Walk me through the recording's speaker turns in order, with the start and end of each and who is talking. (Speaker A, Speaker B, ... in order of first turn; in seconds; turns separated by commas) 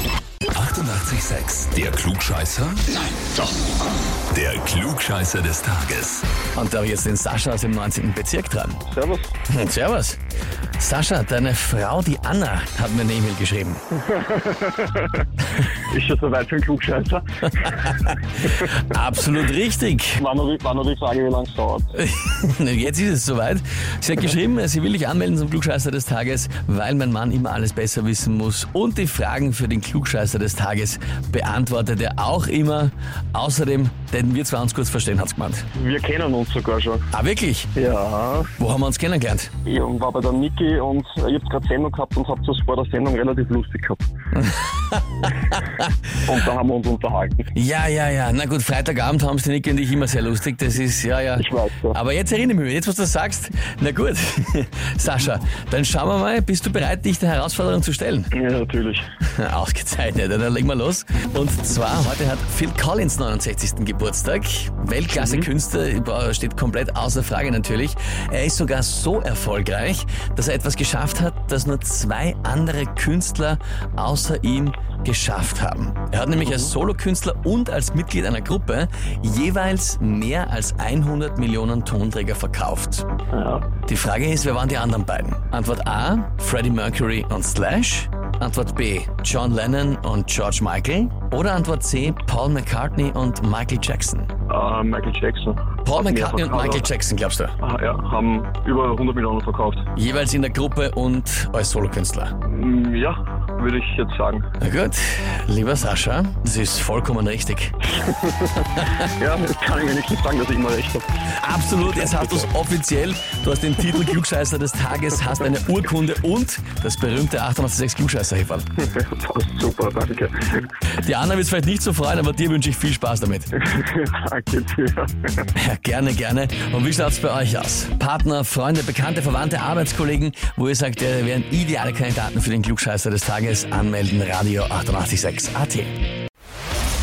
Speaker A: 0.5-3.5, Speaker A: 4.3-6.2, Speaker B: 6.5-8.8, Speaker C: 8.9-9.3, Speaker B: 9.5-10.2, Speaker B: 10.8-13.8, Speaker C: 14.1-15.2, Speaker C: 15.8-18.0, Speaker B: 17.6-20.2, Speaker C: 20.2-21.9, Speaker B: 21.9-35.7, Speaker C: 35.7-37.0, Speaker B: 37.1-37.7, Speaker C: 37.7-38.5, Speaker B: 38.6-39.5, Speaker C: 39.6-44.0, Speaker B: 44.3-45.9, Speaker C: 46.2-47.5, Speaker B: 47.5-58.3, Speaker C: 51.4-52.0, Speaker C: 58.3-59.0, Speaker B: 59.2-83.1, Speaker C: 65.2-65.5, Speaker C: 76.4-76.7, Speaker C: 83.3-83.7, Speaker B: 83.9-94.3, Speaker C: 94.5-96.9, Speaker B: 95.8-97.6, Speaker C: 97.6-99.8, Speaker B: 100.0-102.3, Speaker C: 102.5-104.5, Speaker B: 104.6-107.8, Speaker C: 108.0-111.1, Speaker B: 111.3-118.7, Speaker C: 111.8-112.5, Speaker C: 118.8-120.7, Speaker B: 121.0-123.6, Speaker C: 123.6-125.5, Speaker B: 125.5-135.9